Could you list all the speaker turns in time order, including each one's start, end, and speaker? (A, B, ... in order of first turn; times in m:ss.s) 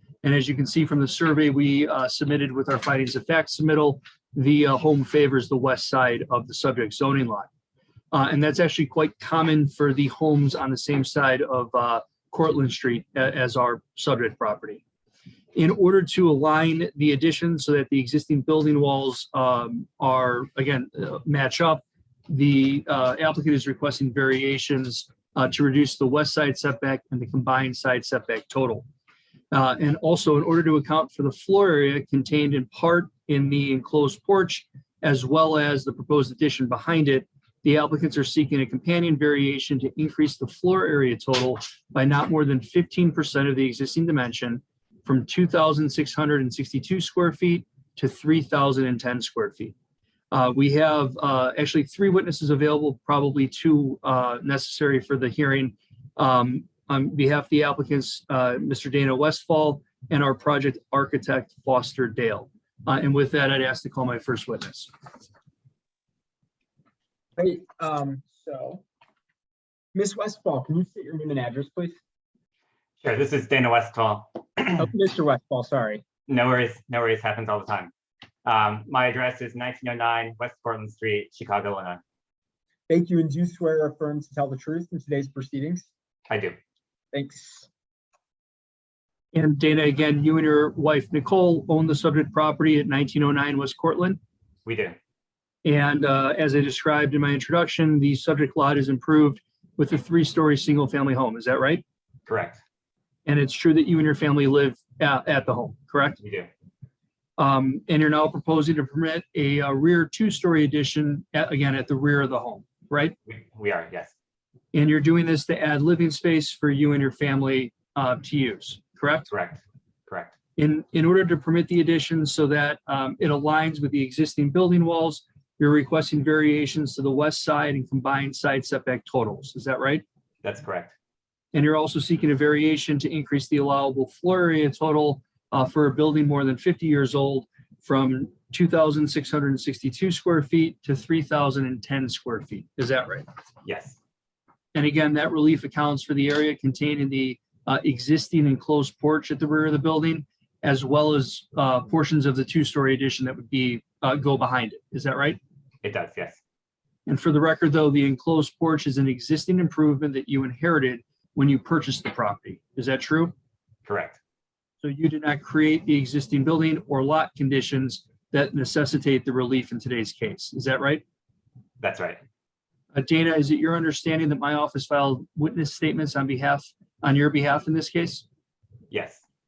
0:00.2-0:07.5 A
0:08.1-0:14.8 A
0:15.6-0:28.8 A
0:29.5-0:49.8 A
0:50.3-1:04.9 A
1:07.4-1:08.8 B
1:09.9-1:12.0 B
1:13.0-1:14.8 C
1:14.8-1:16.0 B
1:16.3-1:17.9 C
1:18.4-1:22.0 C
1:22.9-1:25.9 B
1:26.3-1:26.6 C
1:27.1-1:27.7 B
1:29.3-1:34.2 A
1:34.7-1:35.0 C
1:35.6-1:41.8 A
1:42.3-1:42.6 C
1:43.3-1:46.2 A
1:46.2-1:46.5 C
1:47.4-1:53.2 A
1:53.3-1:54.1 C
1:54.7-1:59.3 A
1:59.3-2:00.3 C
2:00.6-2:10.0 A
2:10.4-2:10.9 C
2:11.5-2:23.3 A
2:23.6-2:24.0 C
2:24.7-2:35.4 A
2:35.8-2:36.4 C
2:37.1-2:43.3 A
2:43.8-2:44.2 C
2:44.8-2:51.0 A
2:51.8-2:52.2 C
2:52.9-2:58.2 A
2:58.9-2:59.2 C